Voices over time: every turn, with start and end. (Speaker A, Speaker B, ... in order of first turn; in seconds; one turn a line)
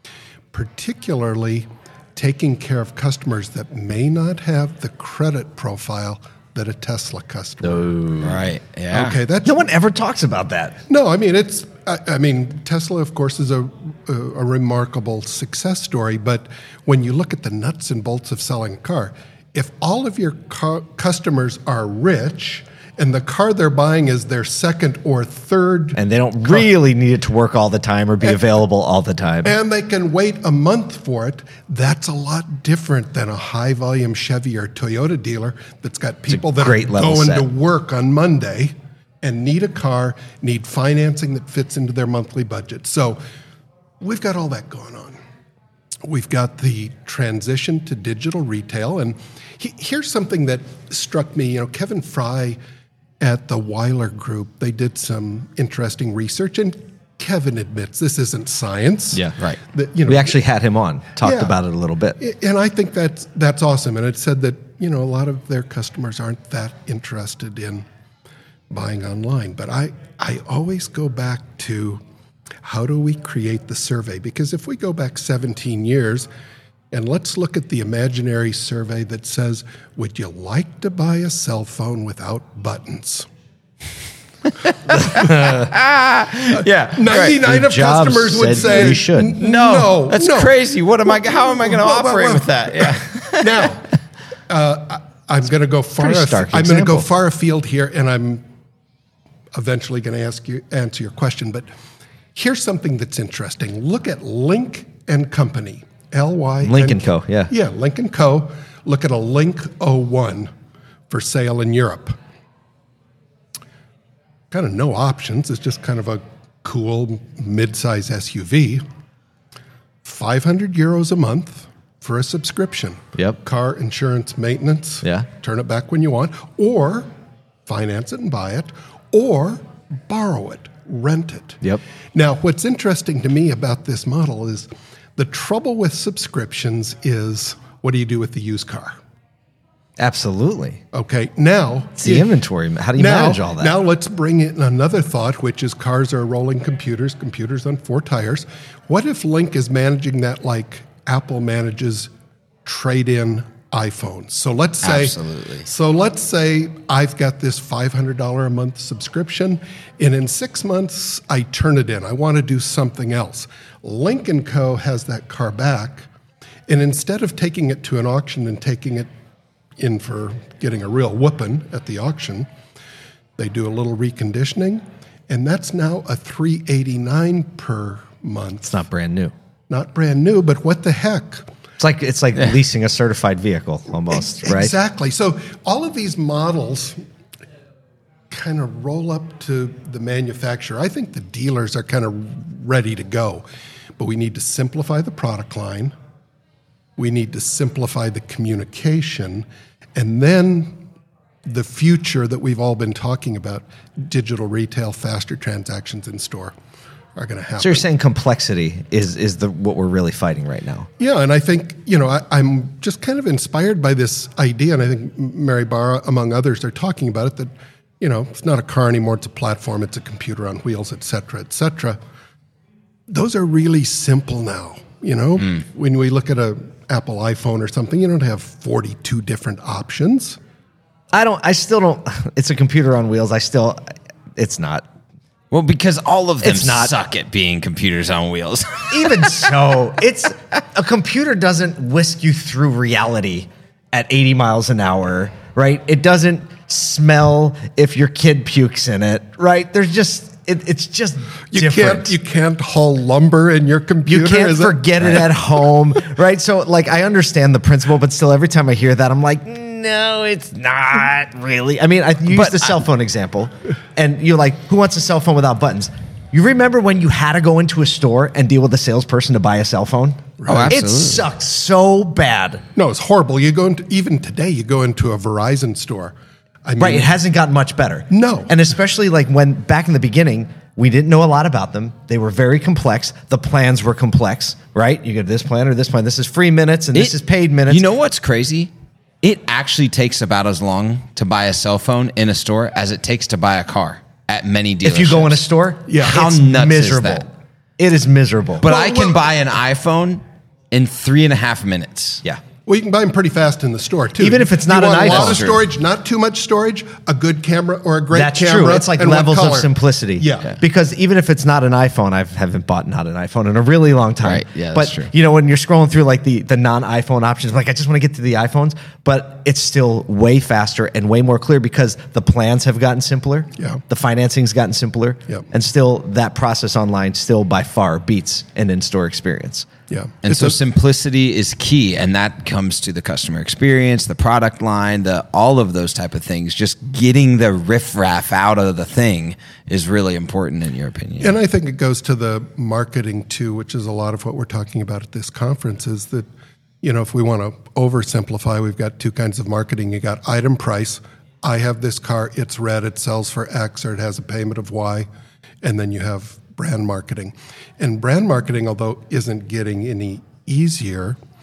Speaker A: 0.5-8.0
Speaker B: 7.6-8.4
Speaker C: 8.2-9.2
Speaker A: 8.9-9.7
Speaker B: 9.4-10.8
Speaker A: 10.9-26.7
Speaker B: 25.9-29.6
Speaker A: 29.4-43.2
Speaker B: 36.3-37.5
Speaker A: 44.0-45.2
Speaker A: 46.0-52.6
Speaker A: 53.2-60.4
Speaker B: 60.1-62.2
Speaker A: 61.2-61.5
Speaker A: 62.2-67.8
Speaker A: 68.7-72.0
Speaker A: 72.6-76.3
Speaker A: 76.9-83.3
Speaker C: 84.7-87.4
Speaker A: 86.6-90.5
Speaker B: 87.4-89.4
Speaker C: 89.4-93.6
Speaker A: 91.0-93.9
Speaker A: 94.5-98.4
Speaker B: 96.0-97.1
Speaker A: 99.5-101.7
Speaker A: 102.3-110.5
Speaker B: 106.6-107.5
Speaker A: 111.1-112.1
Speaker A: 114.5-118.8
Speaker A: 120.0-127.1
Speaker B: 125.0-125.3
Speaker A: 127.7-139.0
Speaker B: 140.0-140.8
Speaker A: 140.9-142.4
Speaker B: 142.0-143.8
Speaker A: 142.9-152.1
Speaker A: 152.7-166.1
Speaker C: 154.8-155.7
Speaker A: 166.7-169.1
Speaker A: 169.8-172.5
Speaker A: 173.4-178.8
Speaker B: 178.7-179.3
Speaker A: 179.7-181.5
Speaker B: 181.8-184.8
Speaker A: 184.1-187.0
Speaker A: 188.3-193.4
Speaker A: 194.0-195.9
Speaker A: 197.0-200.8
Speaker A: 201.5-206.5
Speaker A: 207.2-207.9
Speaker B: 207.6-210.9
Speaker A: 211.0-222.0
Speaker A: 223.1-230.4
Speaker B: 231.1-234.8
Speaker C: 235.5-239.4
Speaker B: 236.4-236.9
Speaker B: 238.9-252.1
Speaker A: 251.5-255.0
Speaker B: 254.1-272.6
Speaker C: 262.3-262.8
Speaker A: 270.4-270.8
Speaker C: 270.5-271.3
Speaker A: 272.8-277.2
Speaker B: 276.8-287.9
Speaker A: 278.1-278.6
Speaker C: 287.7-288.7
Speaker C: 289.2-295.4
Speaker B: 294.8-297.3
Speaker A: 295.9-296.3
Speaker C: 296.0-297.3
Speaker B: 297.8-298.7
Speaker C: 298.6-302.2
Speaker A: 298.7-299.2
Speaker A: 302.7-310.6
Speaker B: 304.2-305.5
Speaker C: 305.0-305.6
Speaker B: 308.1-329.7
Speaker C: 314.2-315.1
Speaker A: 323.6-323.8
Speaker A: 329.9-330.6
Speaker C: 330.2-341.4
Speaker A: 341.2-346.3
Speaker A: 346.8-355.1
Speaker A: 355.6-361.2